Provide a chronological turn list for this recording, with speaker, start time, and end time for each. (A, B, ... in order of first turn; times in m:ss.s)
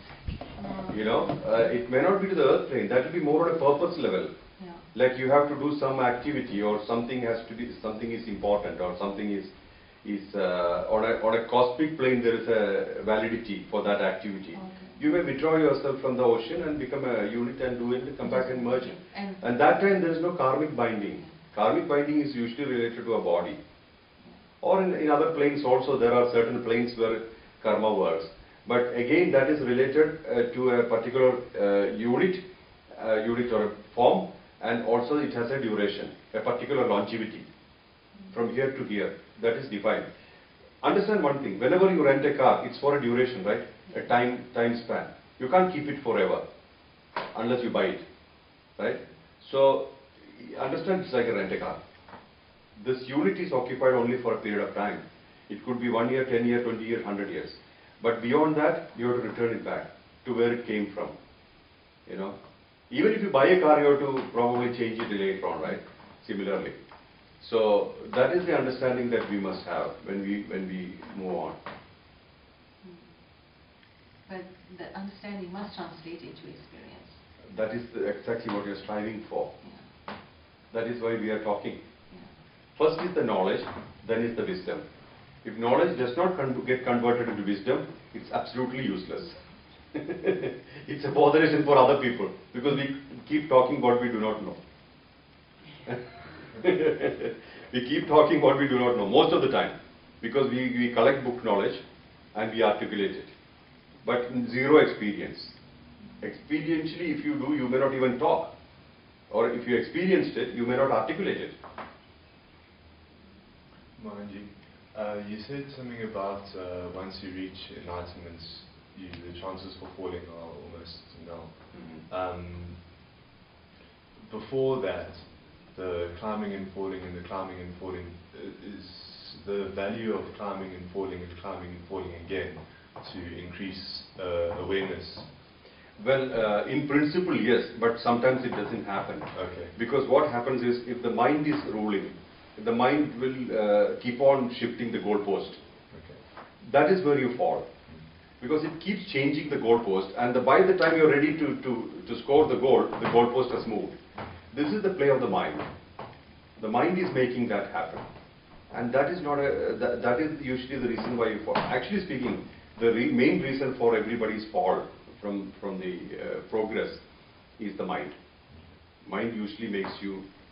0:00.5-0:01.2 A
0:00.9-0:04.3 B
0:04.6-0:04.8 A
0:04.9-0:09.5 B
0:10.0-0:23.6 B
0:14.5-0:15.0 A
0:18.2-0:19.4 A
0:24.6-0:37.4 B
0:38.3-0:40.1 B
0:40.8-0:46.4 B
0:47.3-0:48.0 B
0:48.8-0:51.8 B
0:52.8-1:01.1 B
1:02.0-1:02.4 B
1:02.9-1:06.8 B
1:07.4-1:11.6 B
1:12.8-1:13.2 A
1:14.2-1:17.2 A
1:17.5-1:19.5 B
1:19.6-1:19.9 A
1:20.7-1:21.8 B
1:22.8-1:24.8 B
1:25.4-1:29.4 B
1:29.9-1:34.6 B
1:35.8-1:41.8 B
1:42.3-1:43.3 B
1:44.0-1:45.5 B
1:46.2-1:48.5 B
1:49.3-1:51.5 B
1:54.0-2:02.9 C
2:01.7-2:02.0 B
2:04.2-2:15.3 C
2:16.0-2:25.6 B
2:19.3-2:19.7 C
2:25.9-2:26.2 C
2:26.6-2:27.7 B
2:28.4-2:34.0 B
2:34.5-2:35.7 B
2:36.6-2:38.0 B
2:38.7-2:47.0 B
2:47.6-2:48.2 B
2:49.0-2:50.2 B